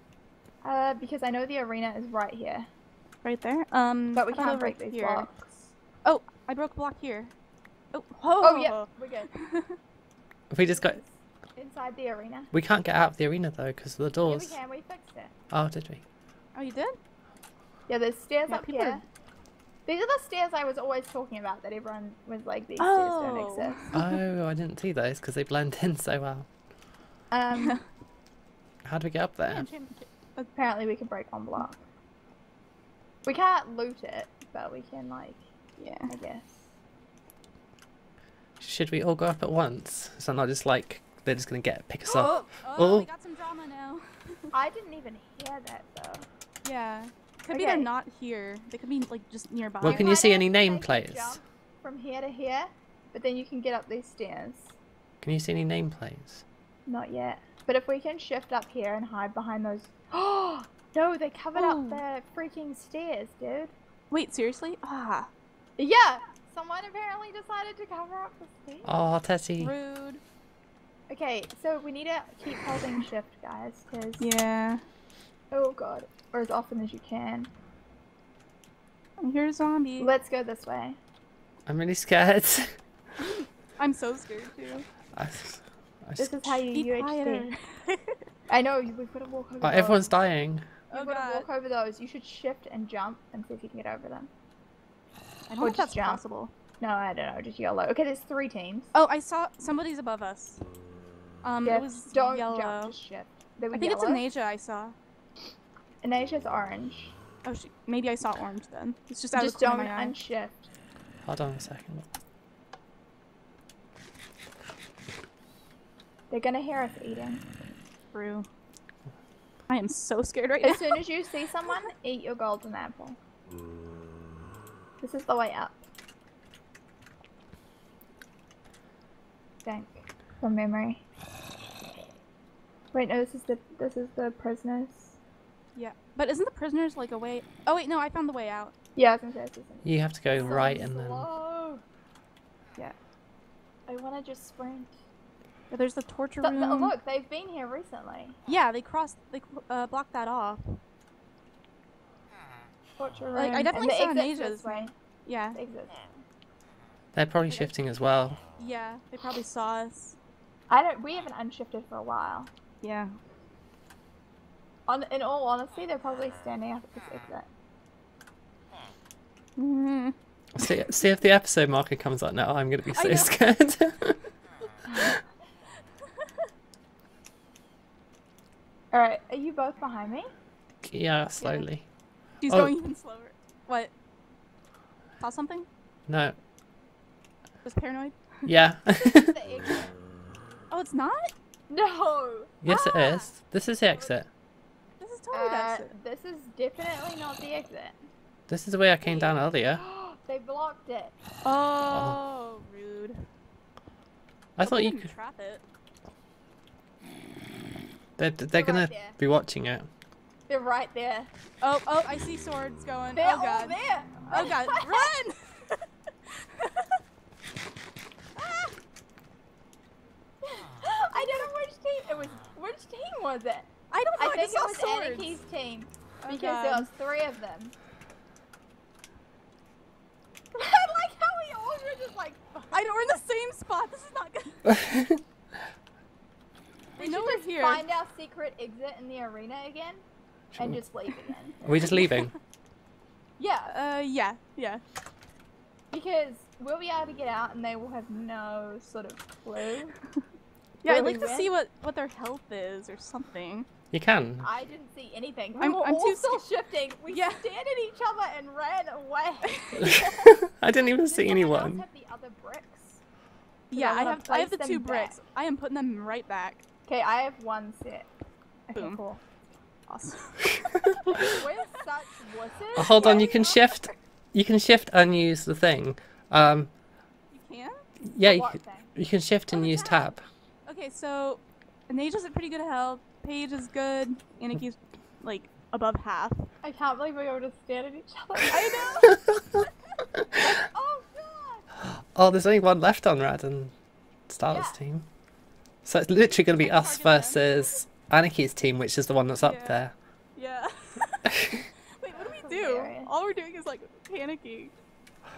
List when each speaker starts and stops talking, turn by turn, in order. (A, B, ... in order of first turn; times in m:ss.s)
0:00.6-0:02.7 A
0:03.2-0:05.3 B
0:04.1-0:05.7 A
0:06.0-0:07.3 B
0:07.9-0:09.8 B
0:08.4-0:09.3 A
0:10.5-0:11.0 C
0:10.6-0:12.5 A
0:12.5-0:14.6 C
0:14.2-0:15.3 A
0:15.5-0:16.0 C
0:16.5-0:17.0 B
0:17.9-0:19.0 A
0:18.5-0:19.0 B
0:19.8-0:24.0 A
0:22.8-0:24.1 B
0:23.9-0:26.5 C
0:27.3-0:27.8 A
0:27.5-0:27.8 B
0:28.8-0:29.7 C
0:29.5-0:30.5 B
0:30.5-0:31.8 A
0:33.2-0:35.4 A
0:35.8-0:36.1 B
0:36.1-0:36.6 A
0:38.6-0:43.1 C
0:42.0-0:42.5 A
0:42.1-0:44.5 B
0:44.5-0:46.2 A
0:46.6-0:50.2 B
0:47.5-0:47.9 A
0:49.8-0:51.4 C
0:49.8-0:54.7 A
0:55.2-0:56.4 C
0:56.8-1:03.7 A
1:01.5-1:02.0 B
1:04.1-1:05.3 B
1:05.8-1:08.9 A
1:08.8-1:09.7 C
1:09.6-1:10.2 B
1:11.1-1:14.2 A
1:14.2-1:14.8 B
1:15.5-1:17.5 A
1:19.2-1:20.1 B
1:20.0-1:21.0 A
1:21.6-1:22.8 C
1:23.2-1:24.8 B
1:25.1-1:26.6 C
1:26.2-1:27.5 A
1:26.7-1:28.2 B
1:28.5-1:30.1 A
1:29.6-1:30.7 C
1:30.9-1:31.4 B
1:30.9-1:34.3 A
1:35.5-1:36.5 B
1:35.6-1:36.2 A
1:36.8-1:38.9 A
1:38.9-1:40.6 B
1:41.4-1:43.0 B
1:41.6-1:44.2 A
1:43.7-1:44.9 B
1:46.0-1:47.1 A
1:47.4-1:50.1 B
1:49.3-1:50.7 A
1:51.2-1:52.1 C
1:56.3-1:57.4 A
1:58.1-1:58.5 B
1:59.7-2:01.0 B
2:00.6-2:03.2 A
2:05.0-2:05.8 A
2:09.6-2:11.0 A
2:12.9-2:15.2 A
2:15.7-2:18.7 B
2:19.0-2:21.8 A
2:19.8-2:21.2 C
2:20.4-2:20.7 B
2:23.9-2:24.9 A
2:25.7-2:26.9 B
2:26.4-2:28.4 A
2:28.5-2:30.8 B
2:33.0-2:34.9 A
2:33.4-2:35.6 B
2:35.5-2:36.0 A
2:37.1-2:38.4 C
2:38.6-2:40.2 B
2:40.7-2:42.5 A
2:42.8-2:43.1 B
2:44.9-2:47.5 A
2:49.6-2:50.9 B
2:50.5-2:54.2 C
2:52.9-2:53.4 B
2:58.9-3:00.3 A
3:00.8-3:01.8 C
3:01.4-3:01.6 B
3:02.4-3:03.9 B
3:05.2-3:05.7 B
3:06.1-3:06.4 C
3:07.6-3:08.5 B
3:08.4-3:09.4 C
3:08.9-3:09.9 A
3:10.7-3:11.3 B
3:11.7-3:13.0 A
3:12.6-3:14.3 C
3:12.7-3:13.3 B
3:15.0-3:15.9 B
3:15.3-3:18.1 A
3:18.5-3:19.8 C
3:19.0-3:21.1 A
3:21.4-3:23.2 B
3:21.9-3:22.2 C
3:24.6-3:25.1 C
3:24.6-3:25.6 B
3:28.2-3:29.9 C
3:28.5-3:29.2 A
3:30.5-3:31.3 A
3:31.6-3:35.8 B
3:33.1-3:35.1 A
3:36.4-3:36.9 B
3:38.4-3:38.7 B
3:40.4-3:47.7 A
3:41.1-3:41.5 B
3:43.9-3:45.4 B
3:46.2-3:46.9 B
3:50.5-3:52.7 A
3:52.7-3:54.8 B
3:54.8-3:55.2 C
3:57.0-4:00.0 A
3:57.0-3:57.8 B
4:00.5-4:01.6 A
4:01.6-4:02.3 C
4:01.9-4:02.3 B
4:03.4-4:03.7 A
4:03.7-4:04.8 B
4:05.9-4:09.9 A
4:10.8-4:13.7 B
4:10.8-4:11.5 A
4:13.9-4:14.5 C
4:14.4-4:20.0 A
4:15.6-4:16.4 B
4:17.1-4:17.4 B
4:19.5-4:20.3 B
4:19.8-4:21.8 C
4:21.0-4:23.0 A
4:23.7-4:26.6 B
4:23.7-4:25.2 A
4:26.9-4:28.1 A
4:28.7-4:29.2 A
4:29.9-4:31.4 B
4:31.0-4:33.6 A
4:32.8-4:33.8 B
4:32.8-4:36.7 C
4:37.3-4:37.8 B
4:38.0-4:40.2 C
4:38.2-4:38.9 A
4:39.5-4:40.1 A
4:40.6-4:46.5 B
4:46.6-4:49.1 A
4:48.5-4:49.3 B
4:50.4-4:51.6 A
4:51.8-4:53.7 C
4:54.3-4:55.1 C
4:54.5-4:54.8 A
4:55.8-4:59.9 C
4:56.6-4:57.8 B
4:59.4-4:59.8 B
5:00.4-5:01.3 B
5:01.3-5:01.7 C
5:02.0-5:04.7 B
5:02.2-5:03.1 A